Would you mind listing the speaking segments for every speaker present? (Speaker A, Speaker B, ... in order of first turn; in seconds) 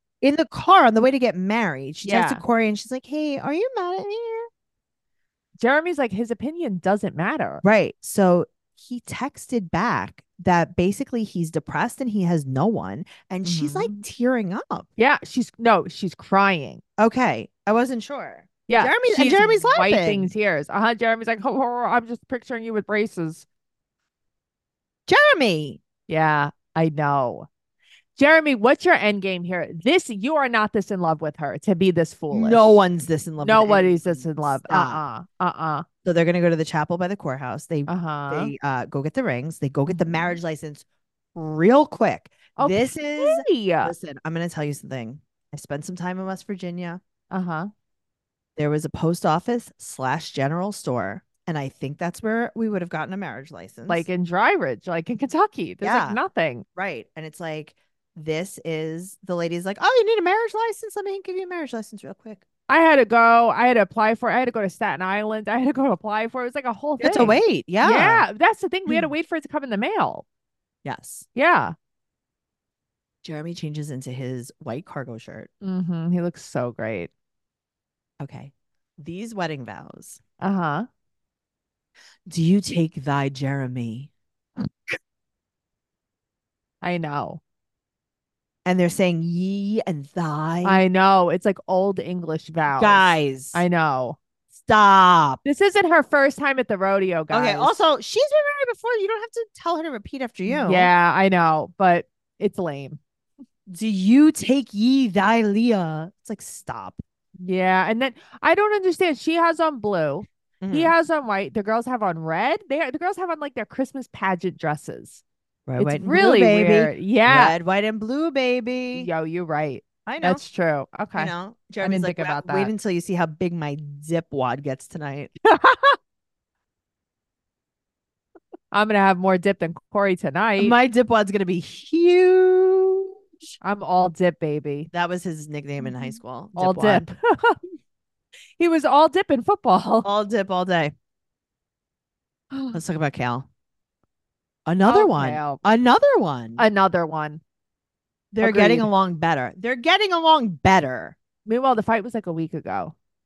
Speaker A: 0.2-4.5, 7.6-14.9, 17.0-20.3, 25.1-25.8, 32.3-35.0, 36.0-47.0, 48.6-54.1, 55.8-56.2, 56.8-62.4, 67.0-68.3, 70.8-71.3, 73.2-75.5, 78.2-80.2, 82.3-84.1, 88.7-90.8, 92.7-93.6, 94.5-95.4, 97.3-100.9, 103.7-107.0, 110.6-111.0, 115.7-119.1, 120.1-120.4, 121.2-125.3, 130.6-133.1, 134.9-137.1, 140.1-140.9, 142.7-143.5, 144.7-146.6, 148.3-151.2
Speaker B: 2.0-2.4, 5.6-7.6, 13.4-14.0, 15.0-16.8, 18.7-23.4, 26.1-27.5, 28.2-32.8, 33.4-35.9, 37.9-38.5, 39.9-40.4, 42.6-43.9, 47.3-47.7, 53.9-56.6, 62.7-70.2, 71.3-71.7, 75.6-77.1, 80.4-80.9, 86.8-87.4, 90.6-94.2, 95.4-97.8, 100.5-103.0, 107.4-115.2, 115.8-117.5, 118.9-122.7, 125.5-126.0, 128.7-130.8, 133.6-134.9, 135.8-137.6, 138.6-140.1, 142.5-142.8, 144.8-145.6, 146.6-147.4, 148.4-148.9, 151.5-152.9